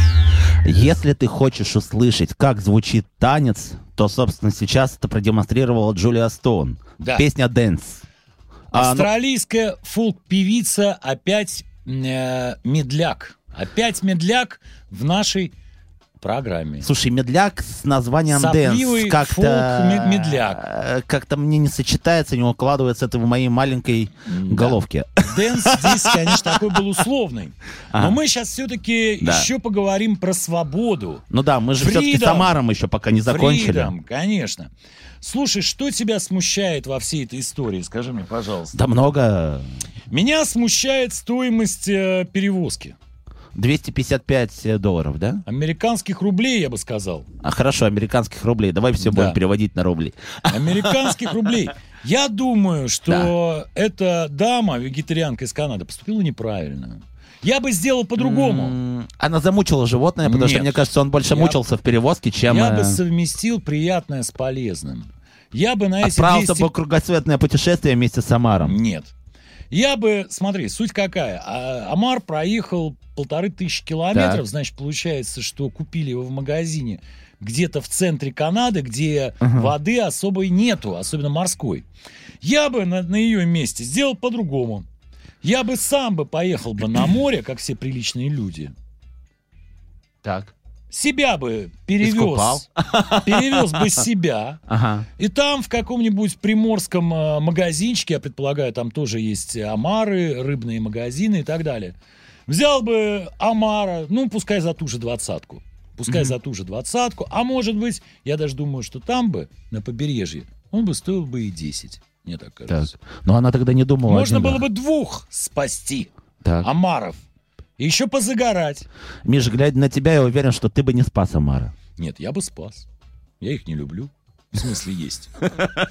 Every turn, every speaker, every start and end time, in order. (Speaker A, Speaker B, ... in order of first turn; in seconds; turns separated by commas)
Speaker A: 0.7-8.0, Speaker B: 7.0-7.3, Speaker A: 8.7-9.1, Speaker B: 8.7-15.5, Speaker B: 16.2-16.9, Speaker A: 16.8-26.8, Speaker B: 18.3-20.6, Speaker B: 24.2-31.2, Speaker A: 27.9-28.2, Speaker A: 29.2-29.5, Speaker A: 31.3-33.9, Speaker B: 31.8-32.5, Speaker B: 33.2-38.8, Speaker A: 38.7-39.7, Speaker B: 40.1-43.0, Speaker A: 43.5-45.4, Speaker B: 45.5-47.3, Speaker A: 47.4-51.6, Speaker B: 49.0-49.4, Speaker B: 50.5-58.8, Speaker A: 53.1-53.3, Speaker A: 58.2-63.0, Speaker B: 60.2-61.6, Speaker B: 62.5-66.7, Speaker A: 66.0-68.8, Speaker B: 68.6-69.1, Speaker B: 69.7-81.9, Speaker A: 74.1-74.4, Speaker A: 79.4-79.7, Speaker B: 82.4-84.9, Speaker B: 85.4-88.7, Speaker A: 90.2-90.5, Speaker B: 90.9-94.6, Speaker A: 92.0-94.0, Speaker A: 94.7-95.1, Speaker B: 95.2-102.0, Speaker B: 102.5-113.0, Speaker A: 106.1-106.3, Speaker A: 112.7-114.7, Speaker B: 114.1-116.1, Speaker A: 116.4-116.7, Speaker B: 116.6-117.2, Speaker B: 117.8-118.9, Speaker A: 119.2-121.7, Speaker B: 122.0-122.9, Speaker B: 123.4-125.5